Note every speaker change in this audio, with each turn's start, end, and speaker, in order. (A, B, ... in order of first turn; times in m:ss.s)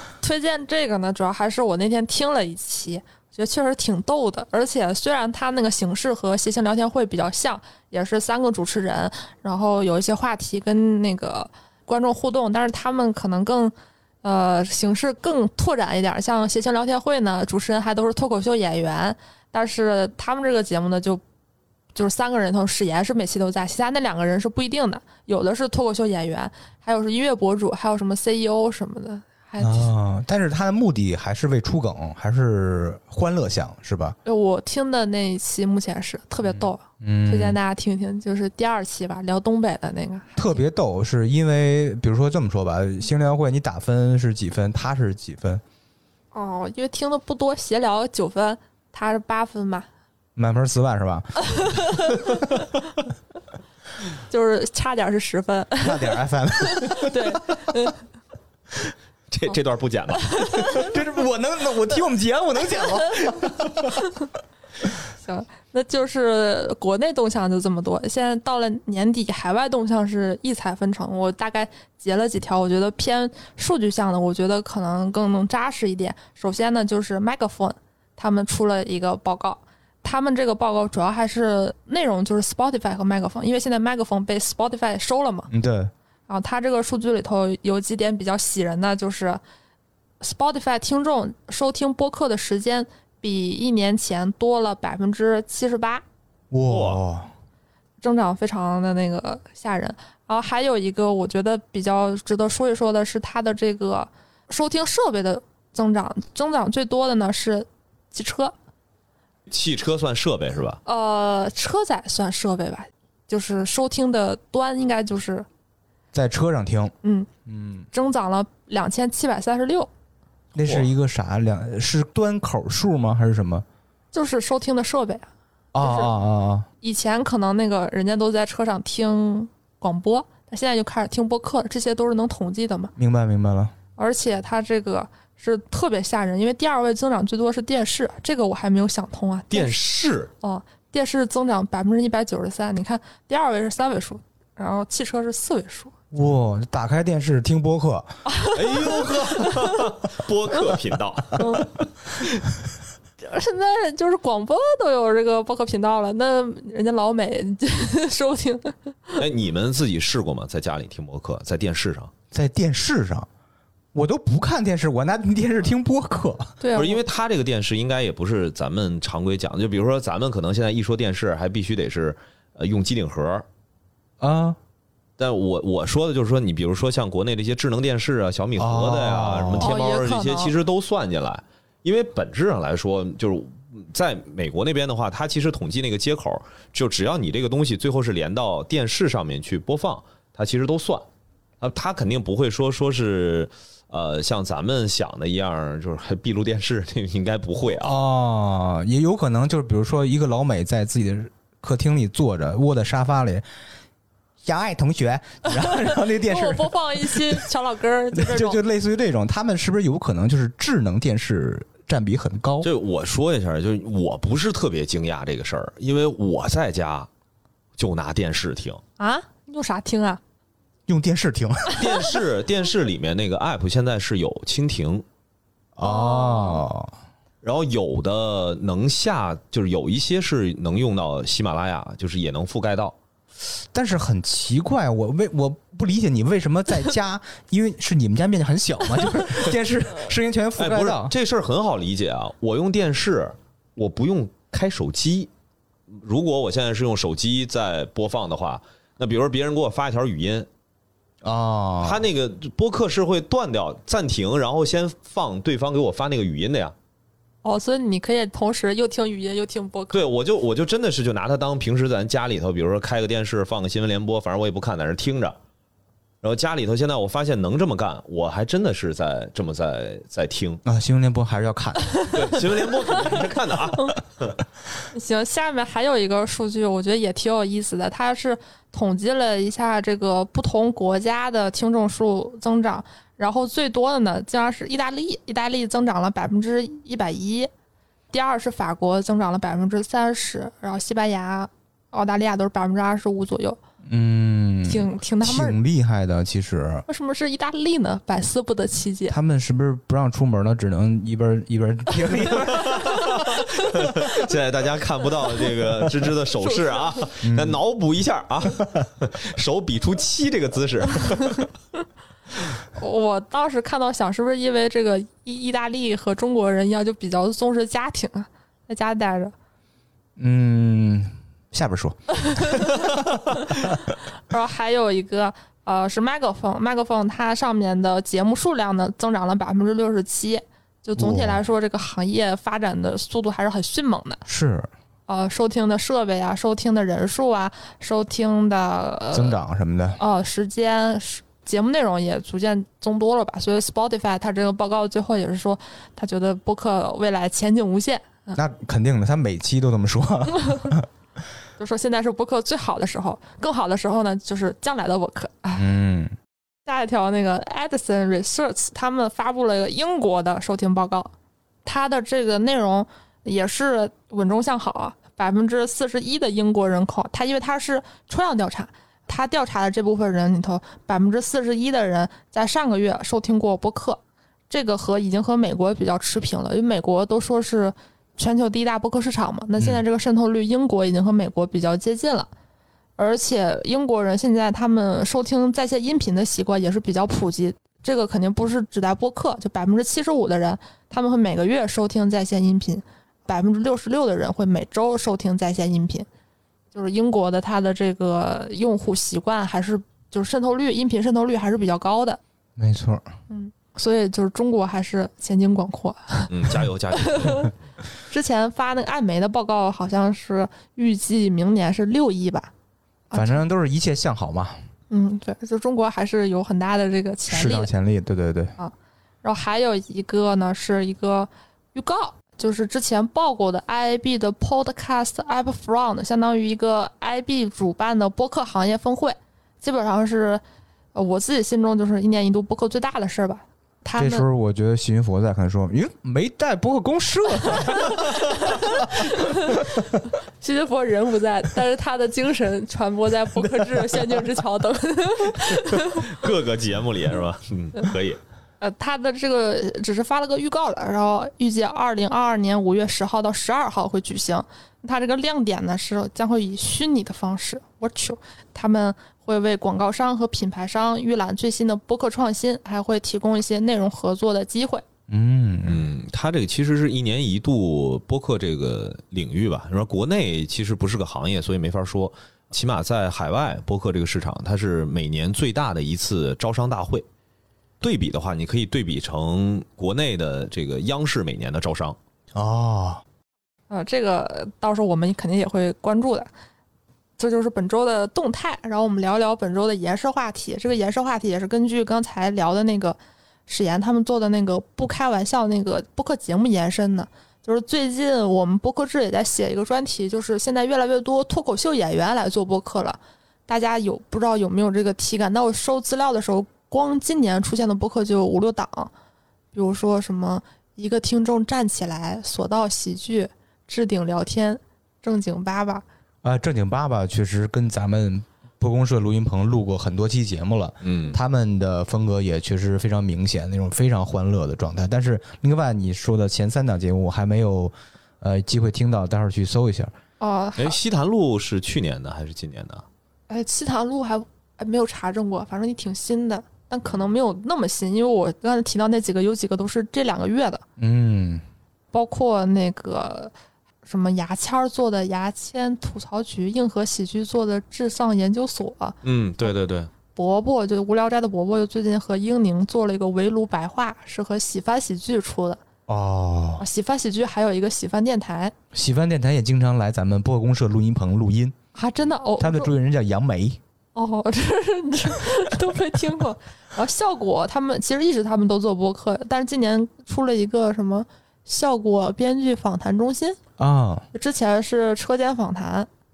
0:00.2-0:21.2 A
0:22.0-0:29.9 A
0:29.6-0:34.2 B
0:34.2-0:40.6 A
0:37.0-0:37.6 B
0:40.4-0:45.6 B
0:46.3-0:49.9 A
0:50.4-0:51.9 B
0:51.5-0:52.3 A
0:54.3-0:58.0 A
0:55.8-0:57.4 B
0:59.3-1:00.9 C
1:00.2-1:00.8 A
1:00.8-1:03.9 B
1:05.2-1:25.5 A
1:25.5-1:25.9 B
1:26.3-1:29.4 A
1:30.2-1:36.0 A
1:36.5-1:37.3 B
1:36.7-1:37.0 C
1:38.0-1:48.6 A
1:49.5-1:50.8 C
1:50.9-1:55.5 A
1:56.1-1:56.9 B
1:57.0-1:57.3 A
1:57.5-1:57.9 B
1:57.9-1:59.9 A
2:00.6-2:03.6 B
2:00.6-2:00.9 C
2:04.1-2:06.1 A
2:05.7-2:06.7 B
2:06.8-2:12.9 A
2:13.0-2:13.7 B
2:14.0-2:19.8 A
2:19.5-2:20.3 C
2:20.4-2:25.9 A
2:26.1-2:28.1 B
2:28.3-2:29.8 A
2:28.5-2:31.9 C
2:31.4-2:31.7 A
2:33.2-2:39.2 A
2:39.2-2:42.1 C
2:42.3-2:43.3 B
2:43.9-2:46.6 B
2:46.6-2:47.0 A
2:46.7-2:53.5 C
2:54.2-2:54.6 B
2:55.2-3:11.0 C
2:58.6-2:59.7 B
2:59.6-3:00.5 A
3:11.6-3:18.0 C
3:17.8-3:23.4 B
3:24.4-3:27.4 B
3:25.6-3:28.6 A
3:28.2-3:32.7 B
3:32.6-3:37.1 C
3:37.8-3:38.8 C
3:39.0-3:40.2 A
3:40.9-3:41.9 B
3:41.7-3:45.0 C
3:45.8-3:46.9 B
3:45.8-3:46.6 A
3:47.4-3:53.0 C
3:53.7-4:01.1 B
4:00.6-4:05.3 C
4:05.9-4:10.5 C
4:11.2-4:12.0 B
4:11.8-4:16.8 C
4:17.4-4:20.0 A
4:19.9-4:25.4 C
4:26.2-4:30.6 C
4:30.6-4:32.2 B
4:32.1-4:34.4 C
4:34.9-4:47.5 A
4:48.1-4:53.6 A
4:53.9-4:56.9 B
4:54.6-4:55.6 A
4:56.9-4:59.2 A
4:59.1-5:03.0 B
5:02.4-5:11.5 C
5:06.4-5:07.0 A
5:07.2-5:07.6 B
5:12.8-5:19.3 A
5:20.2-5:23.8 B
5:22.3-5:22.7 A
5:24.3-5:34.2 A
5:31.0-5:31.4 B
5:34.3-5:34.7 B
5:35.1-5:39.4 A
5:39.1-5:40.0 B
5:40.0-5:48.4 A
5:48.4-5:50.9 B
5:51.6-5:55.7 A
5:55.6-5:56.1 B
5:56.7-6:01.1 A
6:01.6-6:22.3 A
6:23.0-6:36.1 A
6:36.7-6:42.2 A
6:42.6-6:43.0 B
6:43.3-6:46.3 A
6:46.3-6:47.5 C
6:47.0-6:47.5 A
6:48.1-6:52.5 A
6:53.1-6:53.4 A
6:53.1-6:54.6 B
6:54.9-6:57.7 A
6:57.3-6:58.6 B
6:58.6-7:10.4 A
7:11.0-7:14.3 A
7:14.0-7:18.1 B
7:18.5-7:19.7 A
7:20.4-7:26.1 A
7:23.6-7:24.0 B
7:25.9-7:28.2 C
7:28.6-7:44.9 A
7:45.1-7:45.9 B
7:45.7-7:57.1 C
7:57.8-8:02.0 C
8:02.4-8:03.0 B
8:03.7-8:06.3 A
8:07.2-8:28.9 A
8:29.5-8:35.8 A
8:36.2-8:49.9 B
8:40.8-8:41.2 C
8:50.2-8:50.8 A
8:50.6-8:52.8 C
8:53.3-9:00.6 A
9:00.8-9:01.4 B
9:01.9-9:03.3 A
9:03.8-9:09.5 A
9:09.0-9:09.9 C
9:10.1-9:15.6 A
9:15.9-9:16.6 B
9:16.6-9:18.5 A
9:18.7-9:21.6 B
9:21.8-9:22.7 A
9:22.4-9:23.6 B
9:24.0-9:33.4 A
9:33.6-9:34.1 B
9:34.1-9:35.9 A